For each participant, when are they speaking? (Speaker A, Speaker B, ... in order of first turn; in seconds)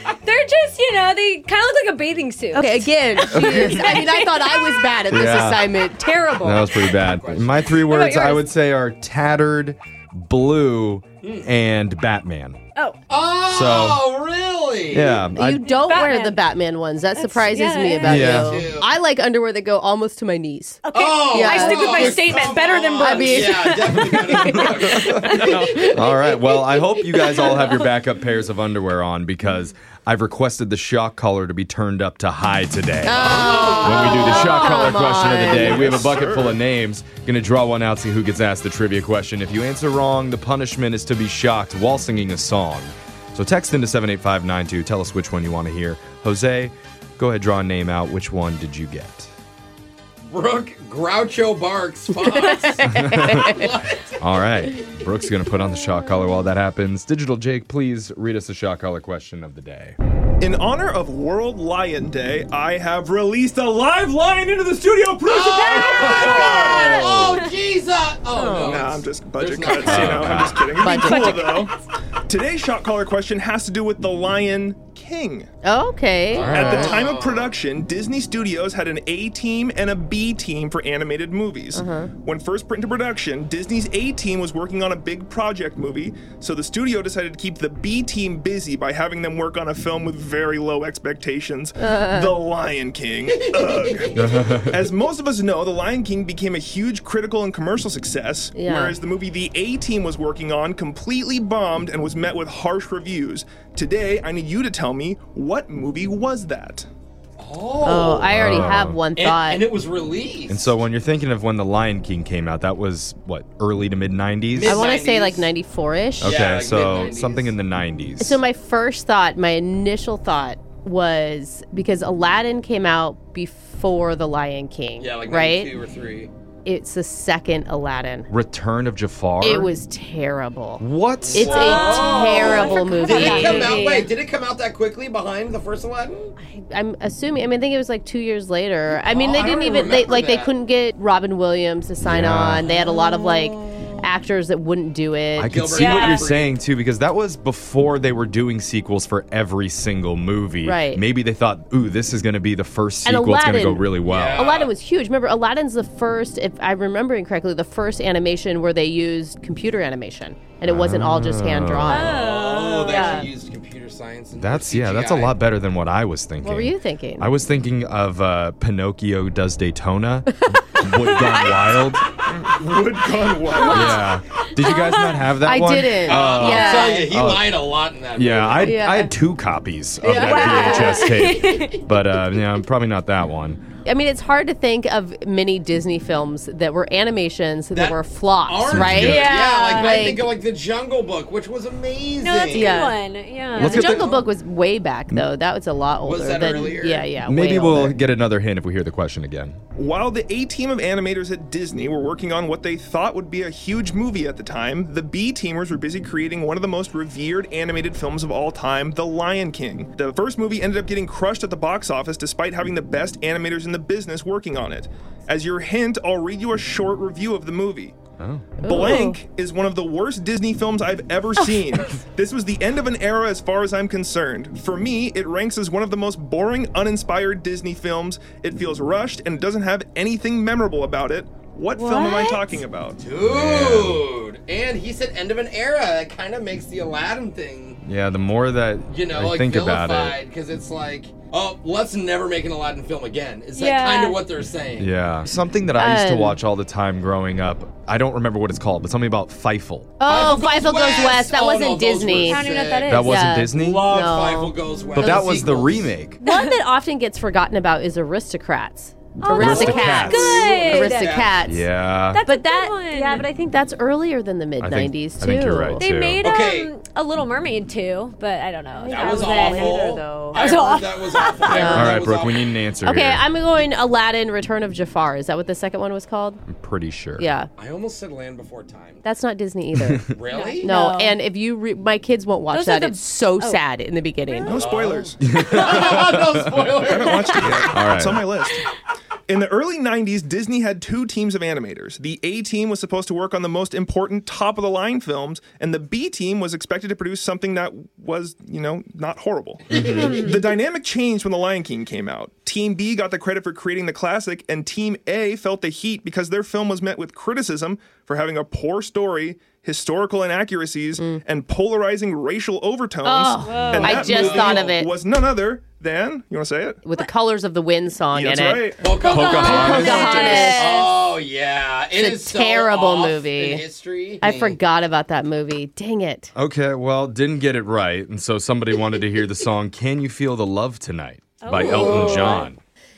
Speaker A: 0.2-4.5, 7.9-8.5, 15.6-16.4, 17.1-18.4, 20.9-27.9, 34.0-34.6, 65.6-67.5, 70.8-71.8, 131.7-134.1, 145.7-146.3, 161.9-163.3, 173.7-175.3, 180.2-181.9, 189.0-190.1, 192.2-194.1, 231.8-232.5, 243.6-244.2, 252.2-253.3, 256.2-256.5, 259.2-261.1, 262.1-263.3, 265.8-272.0, 280.3-281.2, 282.5-283.6, 313.4-314.3, 318.9-320.9, 331.4-332.5
Speaker B: 2.5-6.7, 15.3-22.4, 23.0-24.1, 25.6-26.0, 33.0-35.8, 52.5-53.6, 68.3-68.8, 70.8-71.6, 75.6-76.9, 81.7-82.1, 91.8-92.3, 98.5-99.0, 107.8-109.7, 114.7-116.4, 118.2-125.7, 126.7-128.3, 129.4-133.9, 136.4-145.5, 150.6-151.0, 153.1-162.2, 162.9-163.3, 166.4-167.3, 173.7-174.1, 175.3-177.1, 178.6-179.1, 180.2-181.1, 183.8-190.3, 192.6-193.0, 193.6-198.0, 218.6-219.2, 245.8-246.4, 250.0-252.4, 253.0-255.5, 256.2-261.7, 262.2-265.9, 268.8-270.4, 271.4-272.0, 272.8-276.4, 277.2-277.5, 279.0-280.1, 280.6-284.6, 313.1-314.9, 316.9-320.8, 321.9-323.6, 324.2-326.3, 331.6-332.5
Speaker C: 3.3-3.8, 5.1-5.7, 6.4-12.6, 13.4-14.1, 14.9-15.7, 18.0-18.6, 24.1-49.3, 52.9-53.6, 54.2-60.0, 66.8-67.2, 69.8-70.7, 76.3-76.9, 94.2-94.8, 108.3-109.0, 110.5-114.9, 116.2-118.4, 128.3-129.7, 130.8-131.8, 142.0-142.7, 145.4-154.5, 160.6-162.2, 164.4-172.1, 173.7-177.6, 178.1-183.6, 188.7-189.3, 193.6-194.2, 197.2-199.6, 218.2-218.5, 233.2-234.1, 237.8-240.2, 244.8-250.0, 252.9-253.9, 255.0-256.2, 259.3-260.5, 261.5-262.2, 264.6-266.2, 271.7-273.3, 276.5-277.3, 285.2-286.8, 287.6-288.2, 299.7-300.3, 313.6-314.0, 319.0-320.4, 326.4-332.6
Speaker D: 6.7-7.8, 11.2-11.5, 13.1-15.2, 18.3-18.9, 20.9-25.9, 33.2-35.0, 50.3-54.2, 65.3-70.7, 76.3-77.5, 93.5-94.0, 107.4-110.8, 114.5-115.5, 116.2-117.6, 125.0-126.3, 131.2-136.3, 138.9-140.5, 142.6-144.1, 145.4-146.6, 154.0-154.7, 162.1-165.4, 176.0-178.8, 180.0-181.0, 187.7-192.9, 196.0-197.1, 233.0-237.8, 238.9-244.9, 250.1-256.0, 259.5-261.5, 266.2-266.7, 268.9-272.5, 277.6-279.0, 280.1-280.7, 284.5-287.5, 314.1-314.8, 318.8-324.6, 331.6-332.3
Speaker E: 35.6-36.6, 60.4-67.4, 68.6-71.8, 72.3-75.5, 76.5-106.9, 172.3-173.9, 199.8-218.0, 218.6-233.0, 284.4-286.1, 286.8-288.6, 289.3-316.8, 318.1-320.6